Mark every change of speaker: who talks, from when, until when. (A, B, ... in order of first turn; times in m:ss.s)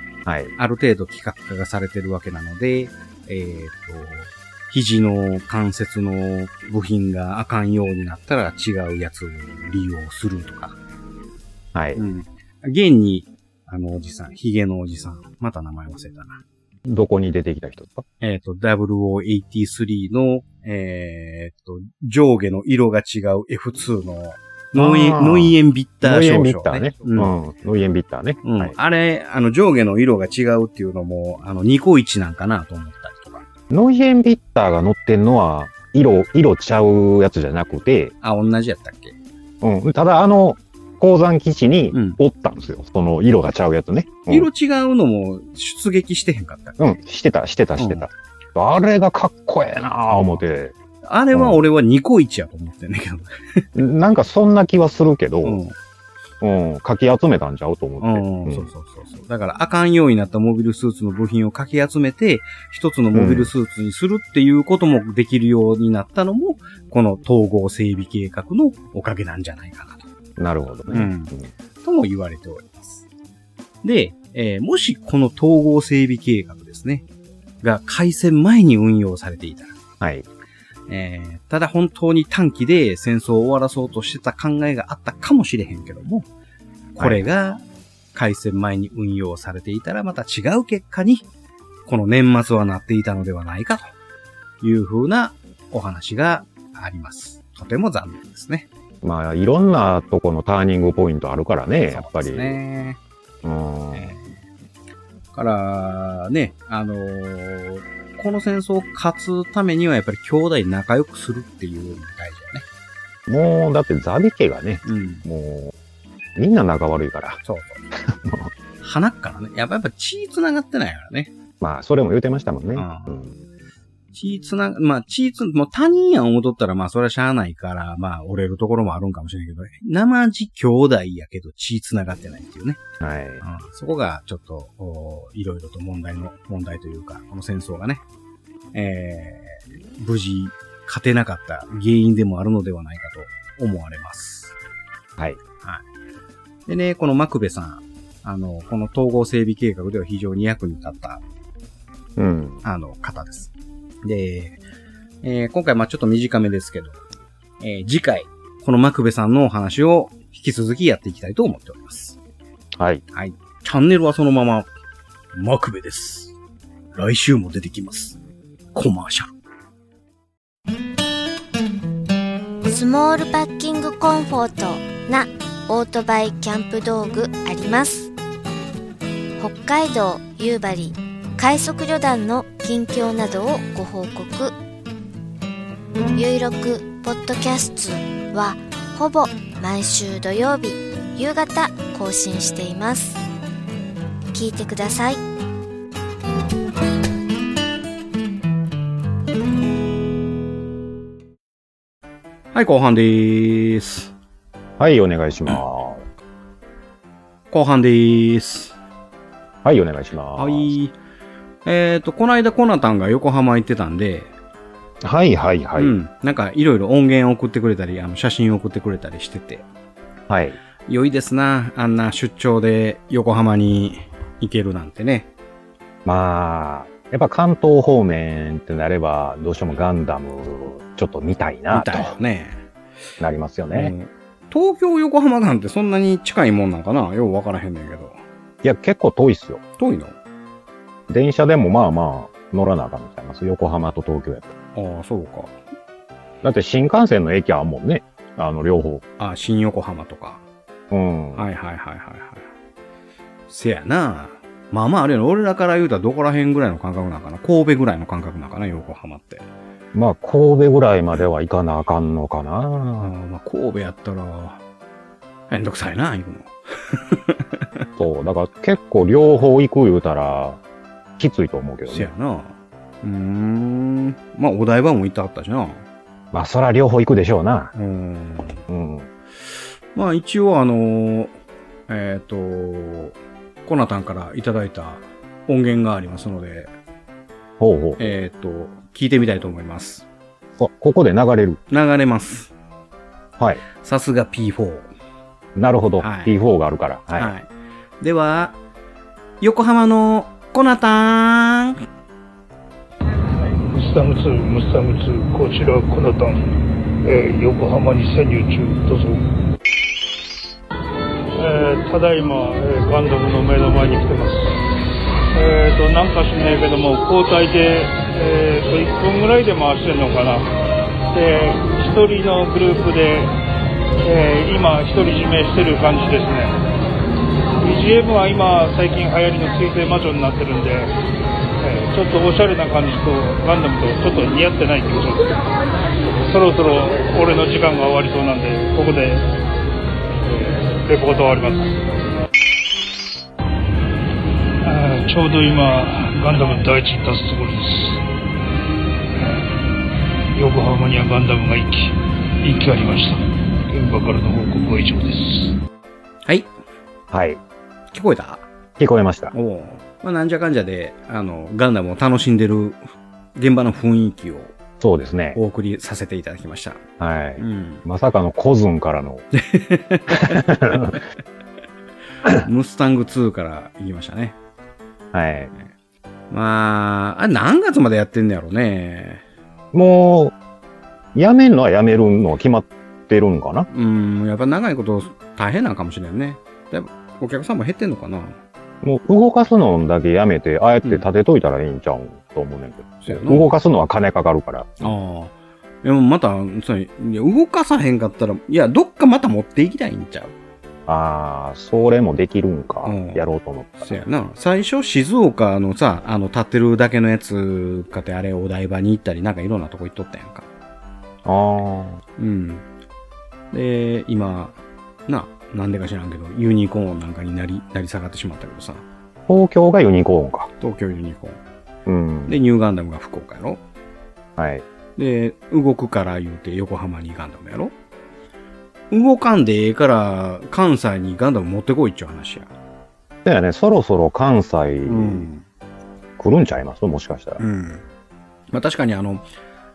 0:00.2-0:00.5 A
0:00.6-0:10.8 B
0:11.7-0:12.0 A
0:12.0-0:16.4 B
0:16.8-0:18.0 A
0:18.2-0:27.3 B
0:24.7-0:28.8 A
0:28.4-0:33.4 B
0:33.7-0:38.1 A
0:38.2-0:39.2 B
0:39.6-0:44.5 A
0:41.9-0:42.2 B
0:44.3-0:46.8 B
0:46.8-0:50.8 A
0:47.8-0:48.1 B
0:51.0-0:53.6 B
0:51.3-0:51.6 A
0:53.8-0:55.6 A
0:55.4-0:55.8 B
0:56.4-0:58.7 A
0:58.0-1:10.1 B
1:03.1-1:03.5 A
1:10.4-1:11.5 A
1:10.9-1:13.0 B
1:13.8-1:17.1 B
1:17.6-1:19.8 B
1:20.0-1:20.3 A
1:20.9-1:26.3 B
1:27.0-1:27.6 B
1:27.0-1:27.3 A
1:28.1-1:31.2 B
1:31.9-1:33.9 B
1:34.6-1:38.7 B
1:39.0-1:42.6 A
1:41.9-1:43.0 B
1:43.4-1:44.2 A
1:43.9-1:44.3 B
1:45.3-1:52.6 B
1:53.3-1:55.7 A
1:54.8-1:55.3 B
1:56.4-1:57.4 A
1:57.4-1:57.8 B
1:58.0-1:58.5 A
1:58.8-2:01.3 B
2:01.6-2:03.3 A
2:02.8-2:03.2 B
2:04.1-2:12.8 B
2:13.0-2:13.4 A
2:13.4-2:18.0 B
2:18.7-2:24.6 B
2:26.7-2:31.2 B
2:32.2-2:32.6 A
2:32.6-2:33.5 B
2:34.0-2:34.6 B
2:35.2-2:37.0 B
2:37.6-2:42.2 B
2:42.8-2:43.0 A
2:43.1-2:44.7 B
2:45.3-2:46.4 B
2:46.9-2:48.2 B
2:48.7-2:49.3 B
2:52.7-2:58.1 C
2:59.4-3:04.6 C
3:06.2-3:13.2 C
3:14.3-3:15.2 C
3:22.5-3:24.1 B
3:24.8-3:26.0 A
3:27.5-3:28.8 B
3:29.6-3:30.7 A
3:30.4-3:31.0 B
3:31.6-3:34.3 B
3:35.0-3:36.0 A
3:35.8-3:39.7 B
3:40.3-3:40.6 A
3:40.9-3:45.3 B
3:46.0-3:52.1 A
3:51.7-3:52.6 B
3:53.2-3:53.9 A
3:53.7-3:58.2 B
3:58.6-3:59.6 A
3:59.8-4:00.2 B
4:01.1-4:04.5 A
4:04.8-4:05.6 B
4:06.4-4:09.0 A
4:09.2-4:10.4 B
4:10.9-4:11.5 A
4:11.4-4:12.5 B
4:13.5-4:19.4 B
4:19.9-4:23.1 A
4:23.0-4:24.6 B
4:25.5-4:27.8 B
4:28.0-4:30.6 A
4:31.2-4:32.1 A
4:31.9-4:35.8 B
4:36.3-4:37.7 A
4:37.8-4:38.6 B
4:38.7-4:39.1 A
4:40.0-4:41.3 B
4:41.9-4:46.7 B
4:47.6-4:48.1 A
4:48.0-4:50.1 B
4:50.6-4:51.6 A
4:51.7-4:52.5 B
4:53.8-4:54.9 B
4:55.6-4:57.3 A
4:56.0-4:56.4 B
4:57.2-4:57.5 B
4:58.0-4:58.6 B
4:59.4-5:01.8 B
5:03.6-5:09.3 D
5:11.4-5:14.6 D
5:15.3-5:20.5 D
5:21.1-5:23.3 D
5:24.0-5:26.6 D
5:27.6-5:30.9 D
5:31.6-5:35.4 D
5:36.3-5:39.3 D
5:40.2-5:41.8 D
5:44.6-5:48.0 D
5:49.2-5:49.5 D
5:50.3-5:55.6 D
5:56.2-5:56.5 B
5:57.1-5:57.4 A
5:57.9-5:58.5 B
5:58.8-5:59.3 A
5:59.3-6:02.8 B
6:03.4-6:04.5 B
6:04.8-6:05.4 A
6:05.3-6:06.8 B
6:07.0-6:09.3 A
6:07.4-6:07.8 B
6:09.3-6:10.9 B
6:10.1-6:11.0 A
6:12.4-6:14.4 B
6:15.1-6:15.5 A
6:16.3-6:19.2 B
6:19.7-6:20.4 A
6:21.2-6:23.7 A
6:23.7-6:28.4 B
6:28.8-6:34.9 A
6:33.0-6:33.5 B
6:34.8-6:40.3 B
6:40.9-6:44.0 A
6:42.8-6:43.2 B
6:43.8-6:50.5 B
6:51.2-6:52.0 A
6:52.2-6:52.6 B
6:53.5-6:58.8 B
6:59.3-7:00.5 A
7:00.6-7:01.4 B
7:01.9-7:02.4 A
7:02.3-7:03.6 B
7:04.4-7:04.6 A
7:05.0-7:07.7 B
7:08.9-7:12.5 B
7:13.2-7:15.3 A
7:14.9-7:15.4 B
7:16.2-7:17.4 A
7:17.4-7:17.8 B
7:18.5-7:19.2 B